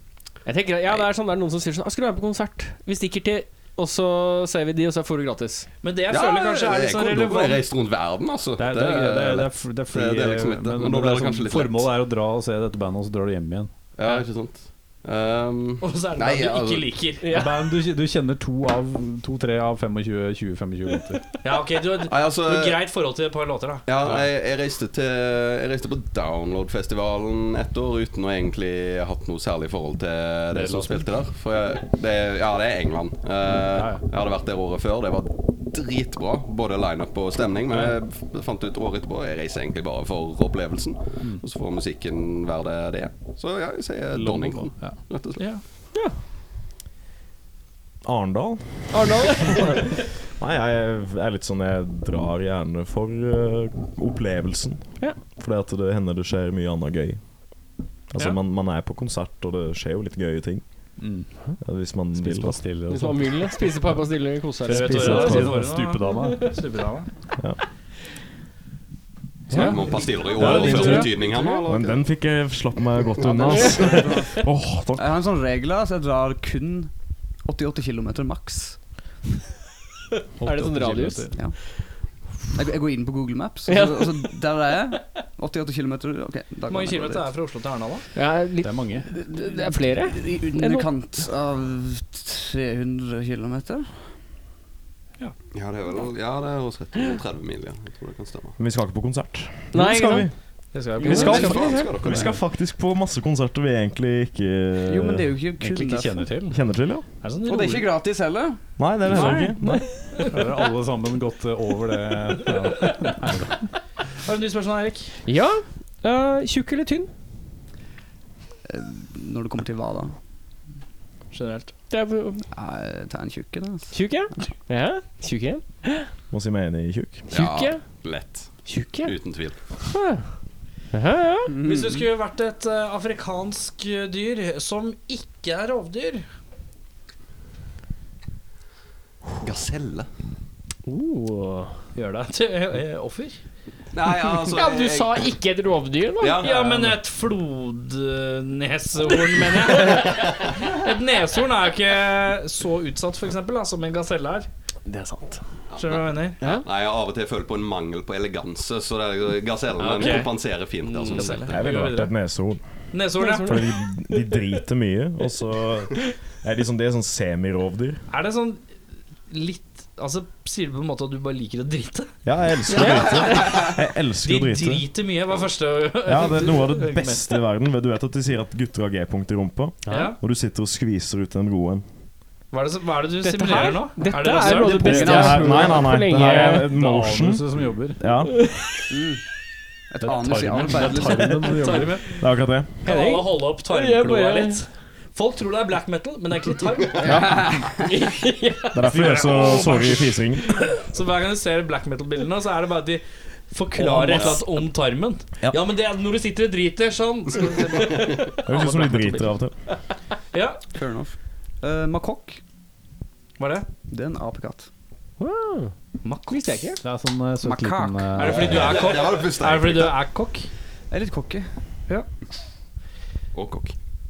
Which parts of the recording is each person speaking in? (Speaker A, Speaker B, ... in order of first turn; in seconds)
Speaker A: 0.4-5.7, 17.2-17.5, 48.9-49.8, 62.9-65.5, 69.5-69.8, 70.4-71.6, 73.5-73.9, 80.4-81.3, 83.7-84.3, 88.1-90.9, 99.7-100.3, 101.0-101.9, 109.3-109.7, 115.2-117.1, 121.9-122.5, 123.9-126.1, 127.3-127.8, 128.6-129.1, 129.9-130.2, 130.9-131.5, 140.8-141.7, 144.3-146.8, 154.8-155.4, 156.4-156.7, 159.8-160.3, 160.8-161.4, 163.2-164.2, 172.7-173.4, 179.8-180.1, 183.2-186.7, 188.3-188.6, 192.8-194.6, 197.8-199.9, 203.8-204.3, 215.2-215.7, 216.3-216.8
Speaker B: 5.8-7.6, 15.8-17.3, 21.4-23.9, 45.4-45.6, 64.7-67.1, 69.5-71.1, 86.7-88.1, 100.7-101.6, 107.2-107.9, 109.1-109.5, 114.2-115.1, 121.3-121.7, 131.6-136.2, 141.9-143.4, 146.4-154.5, 155.8-156.4, 159.8-160.3, 161.1-162.1, 162.9-163.6, 168.1-168.6, 169.3-172.1, 172.8-173.7, 174.2-177.3, 179.9-180.2, 182.5-185.3, 191.5-192.2, 192.8-197.4, 198.8-209.3, 210.3-210.6, 213.4-213.7, 216.0-216.6, 218.1-220.5
Speaker C: 6.1-11.9, 14.0-17.0, 22.0-22.8, 23.9-45.5, 69.5-72.1, 95.5-98.6, 101.0-102.3, 127.3-129.6, 139.4-140.1, 143.9-145.3, 146.2-146.8, 155.7-161.7, 204.1-204.4, 218.2-220.0, 223.3-223.7
Speaker D: 8.6-13.7, 17.3-21.2, 30.5-31.1, 33.5-34.0, 44.1-45.0, 61.0-61.3, 62.1-63.7, 64.6-66.5, 80.4-81.4, 88.6-89.1, 102.0-102.3, 105.6-106.6, 110.3-113.7, 186.2-188.0, 190.0-192.0, 216.8-218.8
Speaker E: 48.0-49.8, 50.4-60.6, 61.6-62.6, 64.7-65.6, 70.4-75.2, 98.6-100.3, 101.0-105.4, 106.5-107.0, 108.8-110.0, 126.3-127.3, 161.5-162.7, 163.4-168.0, 172.2-174.8, 176.0-181.8, 184.8-187.5, 188.0-188.5, 192.2-192.7, 197.0-197.5, 198.7-200.6, 208.4-209.6
Speaker F: 73.2-74.4, 75.0-76.9, 77.4-78.8, 81.3-81.8, 82.5-87.3, 89.1-93.9, 104.8-106.3, 107.4-109.6, 118.7-120.1, 122.5-123.9, 131.5-132.1, 184.6-185.8, 188.9-189.2, 189.9-191.4, 197.2-197.7, 210.7-212.4, 213.9-214.7, 217.7-218.1, 220.9-221.5